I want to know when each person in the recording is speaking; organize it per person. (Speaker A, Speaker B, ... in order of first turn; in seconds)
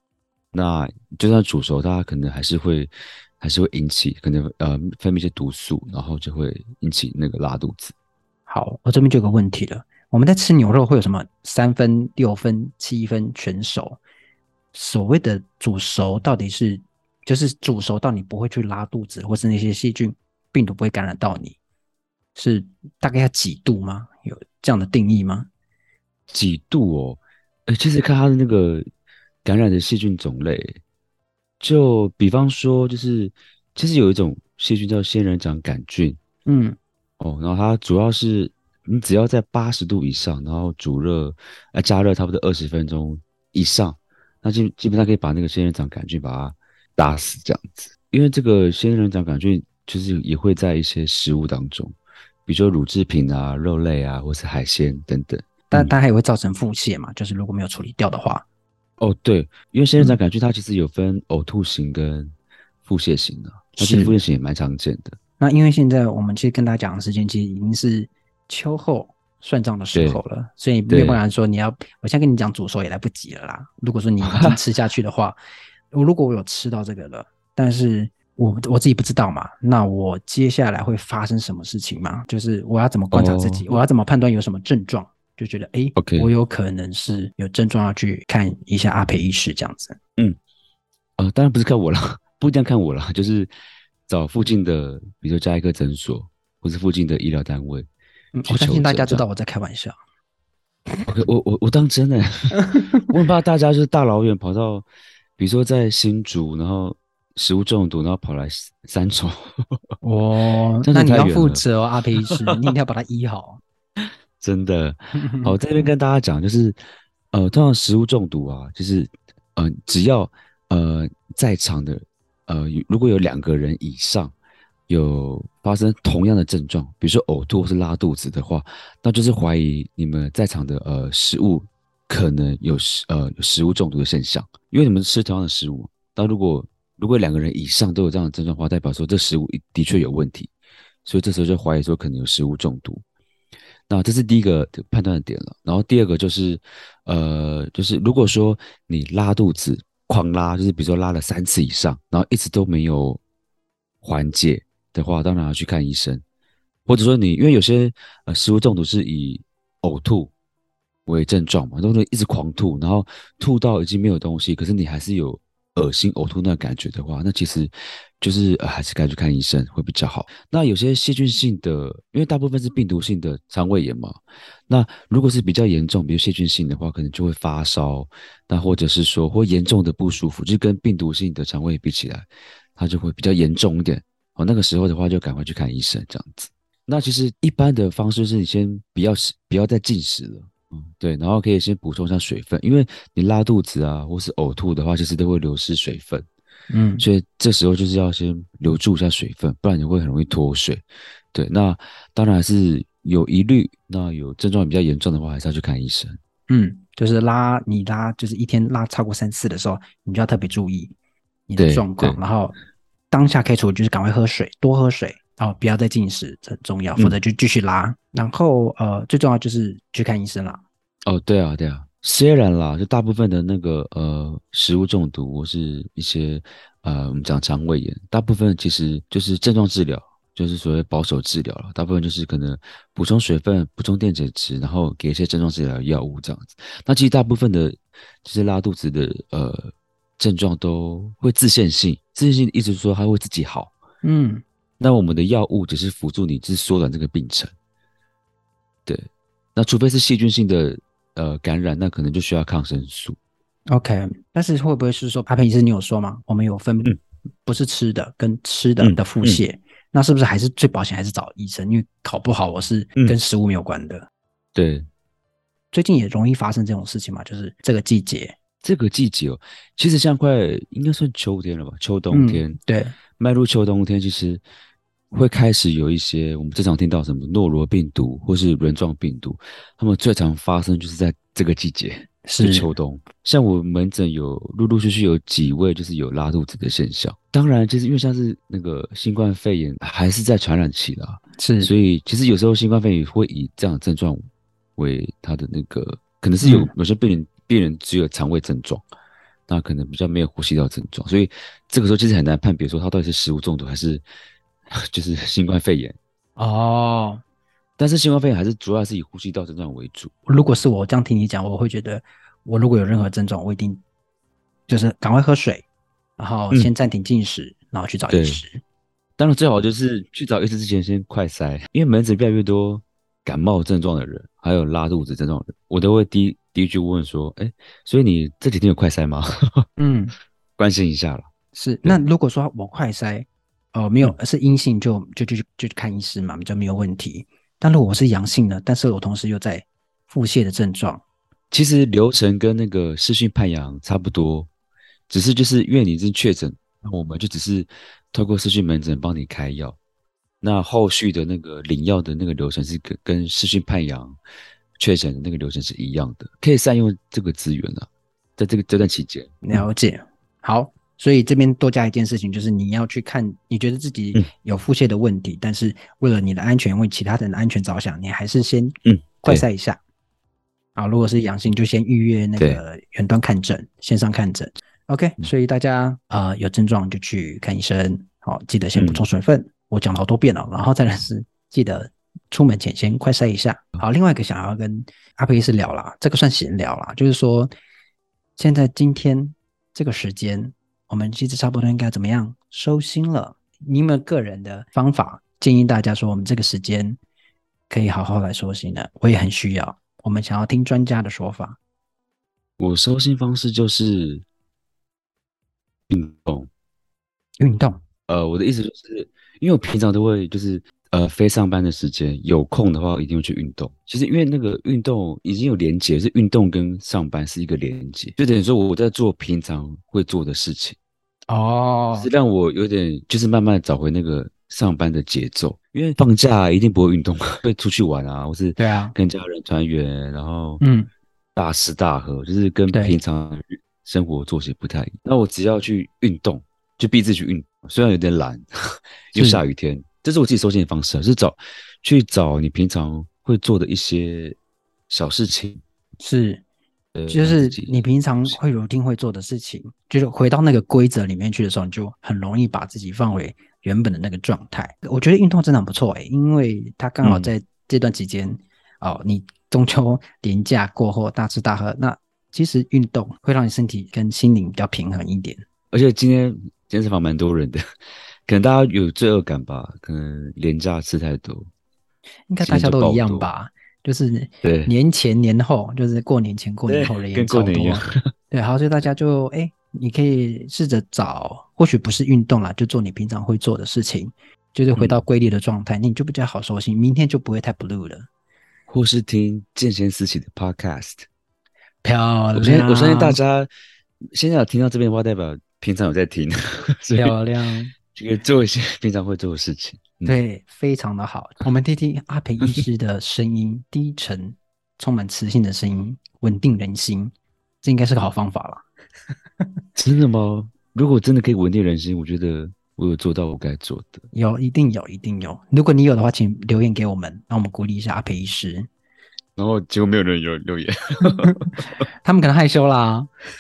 Speaker A: 0.5-7.9, 26.3-28.9, 29.4-30.8, 31.6-36.2, 37.2-55.9, 59.0-62.3, 62.9-65.2, 70.0-70.2, 70.9-71.2, 74.2-74.6, 83.1-83.7, 86.0-86.3, 91.2-93.5, 94.1-97.9, 98.5-99.2, 101.1-104.9, 105.4-109.8, 110.8-111.6, 114.0-116.8, 117.3-124.3, 124.9-140.5, 141.1-143.0, 143.9-153.2, 154.0-156.2, 156.9-160.3, 161.1-196.3, 197.0-206.2, 211.6-212.2, 221.1-243.7, 244.8-247.5, 248.9-253.2, 258.8-259.4, 264.6-264.9, 268.6-272.6, 273.2-274.4, 275.1-294.2, 294.8-298.8, 299.5-304.0, 304.9-306.0, 307.8-310.1, 318.1-318.4, 319.2-329.7, 330.6-331.3, 341.5-344.5, 345.1-349.8, 350.4-354.2, 354.8-359.6, 368.9-369.4, 378.8-379.0, 402.6-404.2, 405.9-406.5, 408.1-420.8, 421.9-430.6, 431.4-438.5, 439.1-444.4, 444.9-445.6, 446.9-448.4, 457.0-457.3, 465.7-467.6, 468.3-471.5, 472.4-473.3, 474.4-474.7, 476.7-478.1, 484.8-485.0, 488.7-491.1, 492.4-493.5, 494.1-497.2, 497.9-500.2, 509.8-514.1, 519.4-521.7
Speaker B: 8.5-14.0, 14.7-21.6, 22.4-25.5, 36.5-36.8, 55.7-58.5, 63.8-64.2, 65.4-75.4, 75.9-90.0, 98.3-100.0, 110.0-113.6, 115.2-115.6, 196.7-197.1, 206.5-210.9, 211.5-212.6, 213.1-220.6, 244.0-244.4, 253.7-256.9, 257.4-264.1, 265.7-268.4, 272.1-272.9, 282.2-282.7, 291.4-291.7, 296.4-296.7, 306.4-307.2, 310.3-313.8, 314.7-315.7, 316.2-318.6, 329.8-330.2, 331.5-341.0, 359.4-369.8, 370.8-387.5, 388.4-397.0, 397.7-401.6, 407.4-407.8, 421.3-422.1, 428.6-428.9, 430.6-430.9, 432.7-433.0, 439.1-439.4, 446.0-446.4, 447.1-465.4, 472.3-488.1, 491.8-493.2, 497.0-497.7, 500.1-508.6, 514.1-518.7, 522.0-523.1